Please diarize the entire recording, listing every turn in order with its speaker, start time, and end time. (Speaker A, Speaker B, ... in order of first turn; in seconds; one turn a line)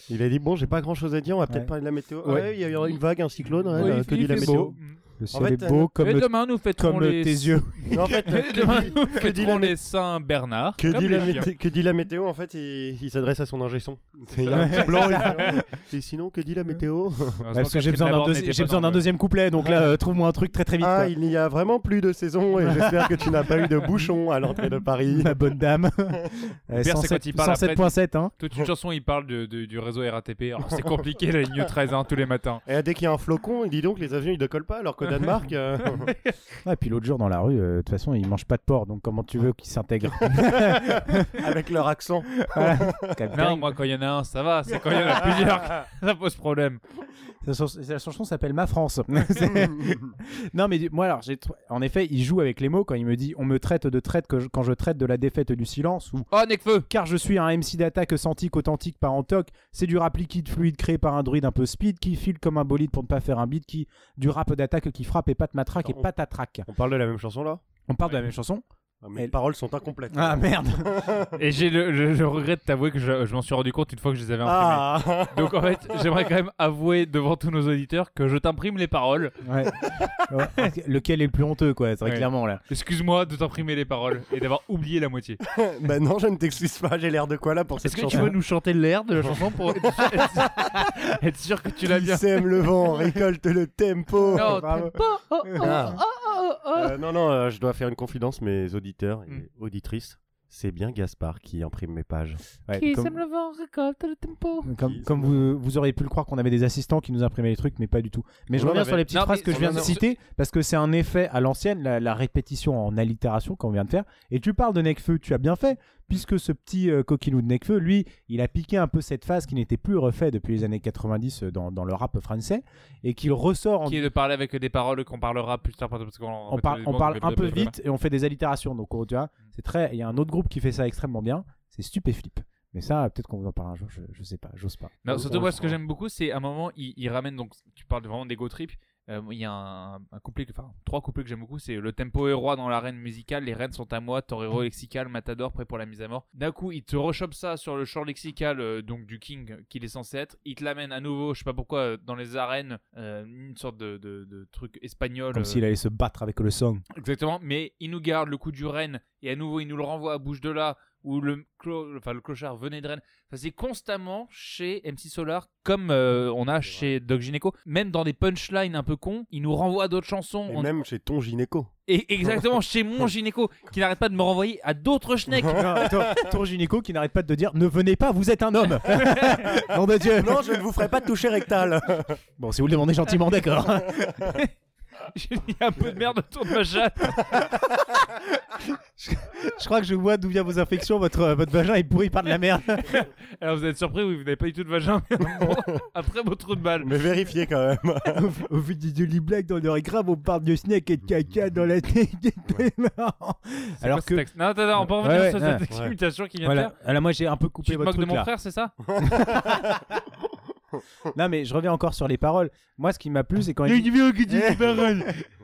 Speaker A: 0.1-4.7
Speaker B: 3.8-5.0
Speaker C: 3.8-8.8
Speaker A: 5.3-5.9
Speaker B: 6.0-11.5
Speaker A: 7.9-9.8
Speaker A: 10.8-17.4
Speaker B: 14.3-15.6
Speaker C: 14.5-15.6
Speaker B: 17.4-19.1
Speaker C: 17.5-21.1
Speaker A: 20.8-25.3
Speaker C: 22.6-23.3
Speaker C: 25.1-28.3
Speaker B: 26.7-32.6
Speaker A: 32.6-36.1
Speaker C: 36.6-41.5
Speaker A: 40.3-43.2
Speaker C: 42.4-43.7
Speaker B: 43.3-46.8
Speaker C: 47.4-56.3
Speaker B: 56.3-56.9
Speaker C: 56.9-66.7
Speaker A: 66.7-67.6
Speaker C: 67.9-68.7
Speaker A: 69.0-71.3
Speaker C: 70.1-70.9
Speaker B: 71.4-79.4
Speaker A: 74.4-75.7
Speaker C: 79.4-79.8
Speaker C: 80.3-82.6
Speaker B: 82.0-85.4
Speaker A: 85.5-88.3
Speaker B: 87.8-92.3
Speaker A: 91.9-94.6
Speaker B: 94.3-96.9
Speaker C: 94.3-95.9
Speaker A: 95.6-96.0
Speaker A: 96.8-102.4
Speaker C: 102.7-103.2
Speaker B: 102.7-104.7
Speaker C: 104.7-124.1
Speaker A: 104.8-105.4
Speaker A: 108.5-109.9
Speaker B: 109.1-110.0
Speaker B: 123.8-127.7
Speaker C: 126.5-135.7
Speaker B: 135.0-155.6
Speaker A: 135.1-135.5
Speaker C: 155.3-156.8
Speaker B: 156.9-170.7
Speaker A: 170.5-171.7
Speaker B: 171.9-176.1
Speaker C: 175.5-180.7
Speaker A: 180.2-182.2
Speaker C: 182.4-184.5
Speaker B: 185.1-187.3
Speaker C: 187.2-193.0
Speaker B: 192.9-196.9
Speaker A: 196.8-198.2
Speaker C: 198.1-205.6
Speaker B: 203.8-206.7
Speaker A: 205.7-205.9
Speaker C: 206.4-208.3
Speaker B: 207.7-208.7
Speaker A: 208.9-209.7
Speaker C: 209.0-209.8
Speaker C: 211.1-215.2
Speaker B: 213.6-215.1